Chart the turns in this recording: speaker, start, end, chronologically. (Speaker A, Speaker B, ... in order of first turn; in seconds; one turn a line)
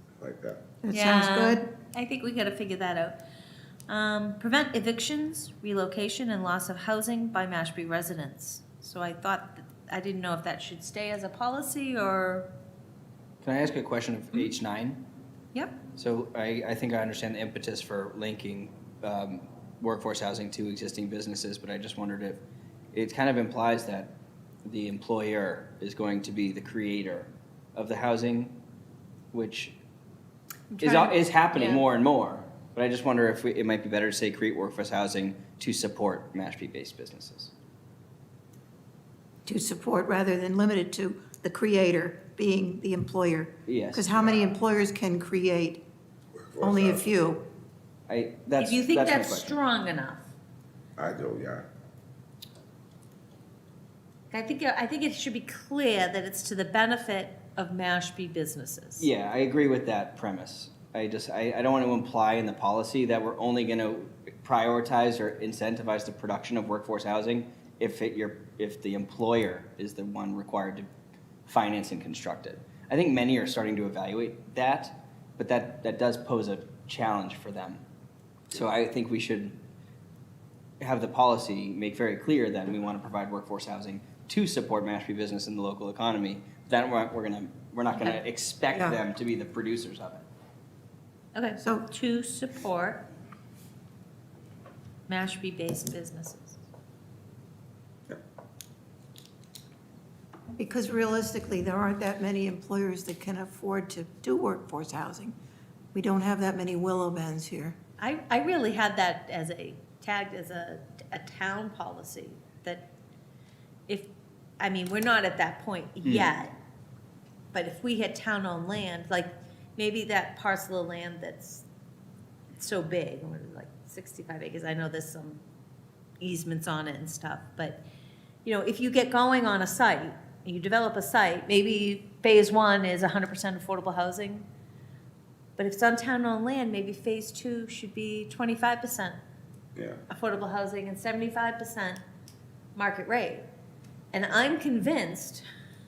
Speaker A: 0.2-0.6
Speaker B: 0.8-1.7
Speaker C: 0.9-3.2
Speaker C: 3.9-12.5
Speaker D: 13.4-15.0
Speaker D: 15.9-22.4
Speaker D: 22.9-24.1
Speaker D: 24.6-28.6
Speaker D: 29.3-29.8
Speaker C: 30.7-31.8
Speaker D: 30.8-37.5
Speaker B: 39.5-45.8
Speaker D: 43.7-44.1
Speaker A: 44.2-44.5
Speaker A: 46.4-47.1
Speaker B: 46.6-47.4
Speaker D: 48.1-49.6
Speaker C: 48.6-50.3
Speaker A: 51.0-51.7
Speaker C: 54.3-59.1
Speaker D: 59.0-70.9
Speaker D: 71.5-77.8
Speaker D: 78.5-79.6
Speaker D: 80.8-90.2
Speaker B: 88.7-89.0
Speaker C: 91.3-93.0
Speaker C: 95.1-96.6
Speaker B: 100.6-105.4
Speaker B: 105.9-107.8
Speaker C: 108.0-112.9
Speaker C: 113.9-116.5
Speaker D: 116.0-116.3
Speaker C: 117.5-121.7
Speaker C: 122.5-125.4
Speaker C: 126.2-127.8
Speaker C: 128.4-134.5
Speaker C: 135.6-139.2
Speaker C: 140.1-142.0
Speaker C: 142.8-143.5
Speaker C: 144.1-145.5